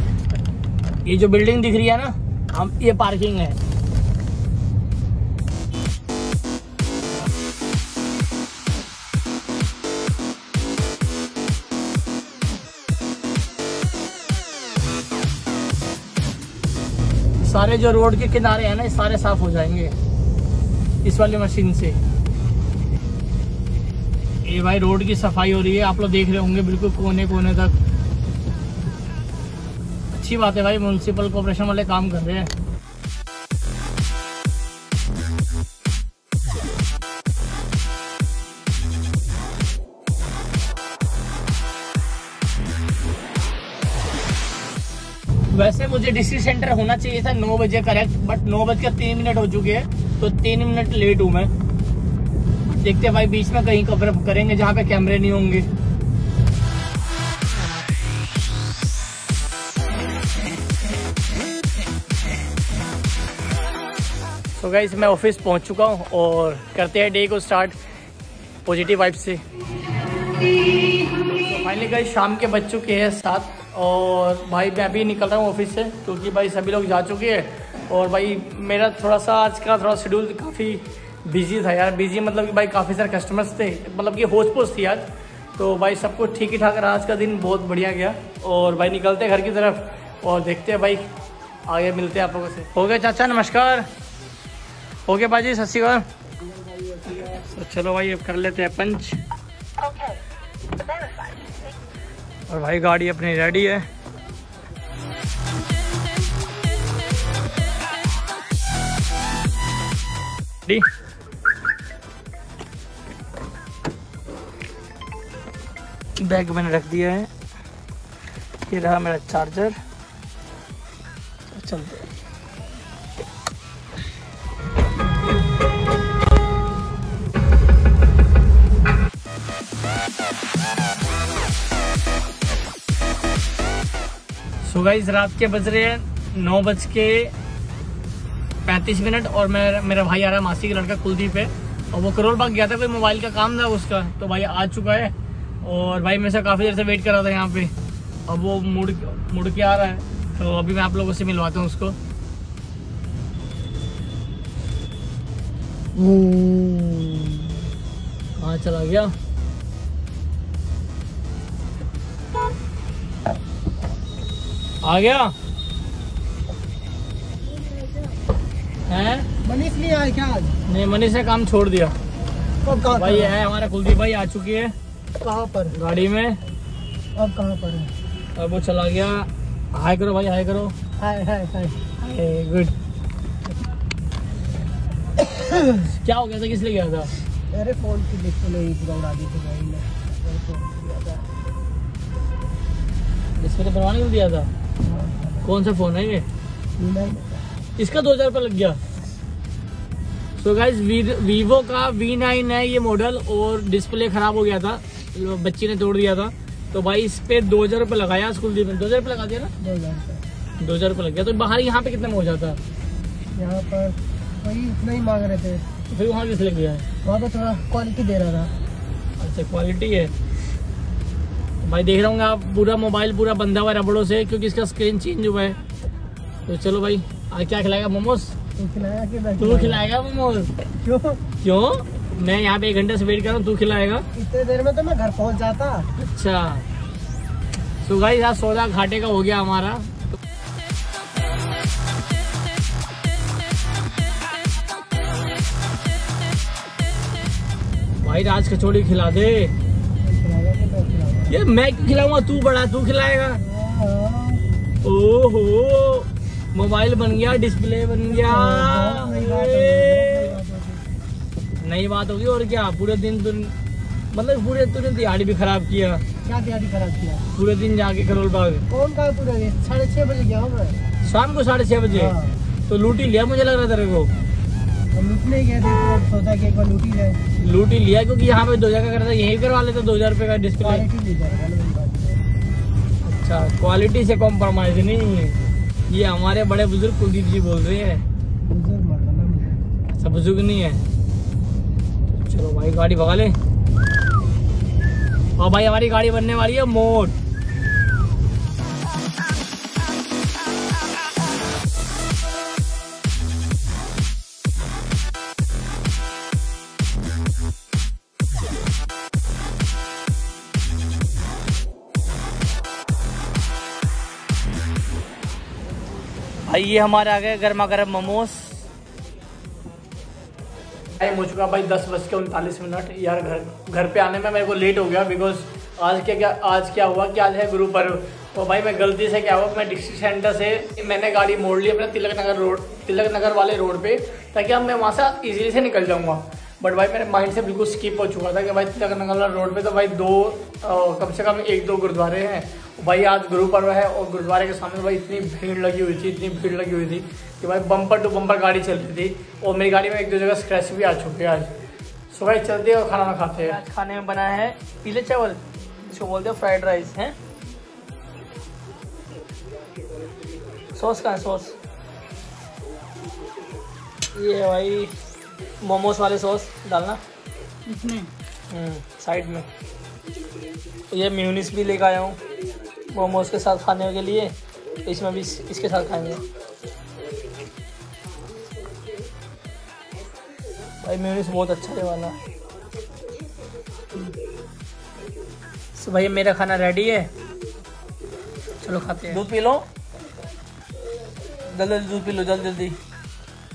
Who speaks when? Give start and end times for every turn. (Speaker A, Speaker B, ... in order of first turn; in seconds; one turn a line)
Speaker A: 1.1-3.6
Speaker A: 17.4-19.9
Speaker A: 21.0-22.0
Speaker A: 24.4-27.7
Speaker A: 30.1-32.5
Speaker A: 45.5-51.5
Speaker A: 52.7-55.7
Speaker A: 64.5-67.8
Speaker A: 68.7-69.4
Speaker A: 71.4-91.0
Speaker A: 91.7-93.9
Speaker A: 95.1-96.0
Speaker A: 97.1-99.2
Speaker A: 102.5-103.9
Speaker A: 116.2-117.3
Speaker A: 118.7-119.8
Speaker A: 121.5-122.1
Speaker A: 134.6-137.3
Speaker A: 138.6-147.7
Speaker A: 148.3-152.0
Speaker A: 155.9-157.6
Speaker A: 158.4-159.1
Speaker A: 164.8-165.3
Speaker A: 168.9-169.3
Speaker B: 169.4-170.6
Speaker A: 170.7-171.9
Speaker B: 172.6-173.4
Speaker A: 172.9-174.7
Speaker B: 175.2-175.8
Speaker A: 175.7-176.4
Speaker B: 177.2-177.9
Speaker A: 178.3-180.7
Speaker B: 181.0-181.8
Speaker A: 182.0-182.7
Speaker B: 185.2-185.8
Speaker A: 185.9-187.1
Speaker B: 187.5-191.2
Speaker A: 193.3-194.5
Speaker B: 194.8-195.5
Speaker A: 195.4-196.3
Speaker B: 196.8-197.4
Speaker A: 197.8-198.8
Speaker A: 200.4-209.5
Speaker B: 209.6-210.2
Speaker A: 210.6-212.6
Speaker B: 213.3-215.6
Speaker A: 215.9-216.8
Speaker B: 217.0-218.5
Speaker A: 219.2-220.1
Speaker A: 221.6-225.6
Speaker A: 226.4-228.3
Speaker B: 228.6-229.8
Speaker A: 229.4-230.5
Speaker B: 230.8-231.2
Speaker A: 231.4-234.1
Speaker B: 234.1-235.9
Speaker A: 236.0-236.7
Speaker A: 237.8-239.9
Speaker A: 248.0-249.5
Speaker B: 250.0-251.4
Speaker A: 251.3-253.4
Speaker B: 253.4-254.4
Speaker A: 254.8-260.4
Speaker B: 258.1-260.9
Speaker A: 261.6-263.5
Speaker A: 264.1-266.0
Speaker B: 266.2-267.2
Speaker A: 267.3-268.6
Speaker B: 268.7-270.8
Speaker A: 271.0-272.1
Speaker B: 271.9-272.4
Speaker A: 272.7-274.1
Speaker B: 274.9-277.2
Speaker A: 277.4-280.9
Speaker B: 280.6-282.2
Speaker A: 283.0-288.0
Speaker B: 288.4-289.7
Speaker A: 289.9-290.8
Speaker A: 292.2-293.3
Speaker A: 295.4-297.1
Speaker A: 316.5-318.7
Speaker A: 321.0-351.5
Speaker A: 352.1-357.1
Speaker A: 360.7-361.6
Speaker A: 364.1-364.9
Speaker A: 365.6-367.0
Speaker A: 367.7-369.5
Speaker A: 370.9-372.2
Speaker A: 372.9-376.2
Speaker A: 380.8-382.2
Speaker A: 385.7-387.1
Speaker A: 388.6-389.6
Speaker A: 391.4-392.8